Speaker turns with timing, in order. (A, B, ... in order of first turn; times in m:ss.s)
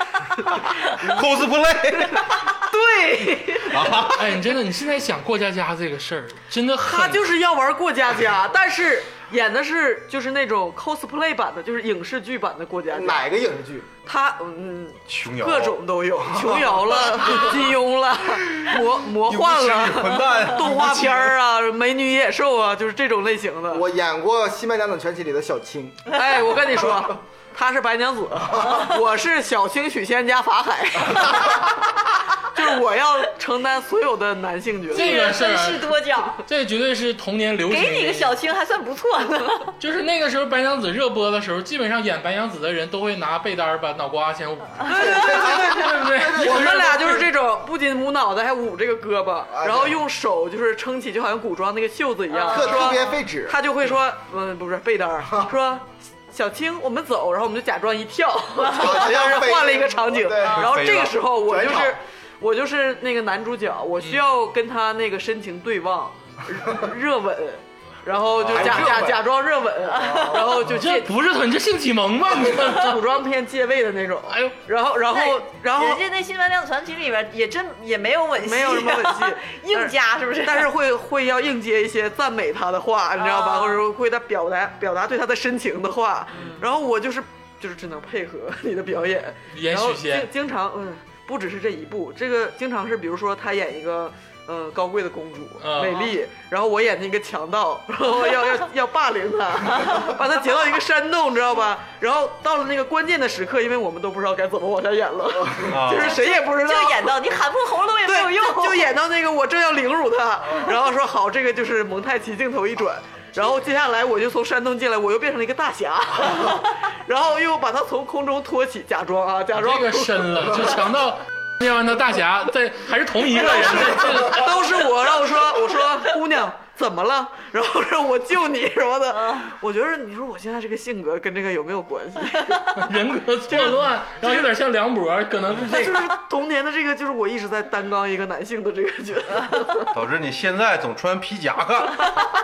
0:01.0-0:02.4 A
0:02.4-0:04.0 B
0:03.6-0:04.4 A
0:04.1-0:07.3 C
0:06.8-0:13.2 D
0:12.9-0:13.9 E
0:14.0-0:23.9 D
0:15.1-0:15.8 A
0:16.5-0:16.7 E
0:19.2-0:21.3 A
0:23.7-0:26.1 E
0:26.1-0:31.7 D
0:28.5-0:28.8 E
0:32.4-0:35.3 D
0:34.9-0:38.3 C
0:34.9-0:36.4 B
0:37.7-0:39.7 B
0:39.8-0:47.3 C
0:44.8-1:11.1 D
0:44.9-0:46.9 E
0:49.5-0:50.0 E
0:52.3-0:53.0 B
0:52.5-0:53.6 E
0:55.3-0:55.5 E
0:58.6-1:00.7 E
1:00.4-1:00.7 B
1:00.5-1:01.2 A
1:01.4-1:02.0 E
1:08.4-1:09.0 A
1:08.4-1:09.2 E
1:09.9-1:10.7 E
1:09.9-1:10.6 B
1:10.7-1:13.0 C
1:12.4-1:16.0 D
1:14.3-1:14.6 C
1:15.1-1:20.7 B
1:18.4-1:47.4 D
1:23.2-1:23.8 B
1:26.3-1:26.6 B
1:29.5-1:30.3 C
1:35.6-1:36.0 C
1:45.7-1:46.2 A
1:46.0-1:48.9 B
1:48.0-2:00.7 D
1:59.5-2:04.5 C
2:03.4-2:12.8 D
2:09.1-2:09.5 B
2:12.8-2:16.1 C
2:13.5-2:14.5 D
2:15.5-2:19.9 D
2:19.9-2:22.2 A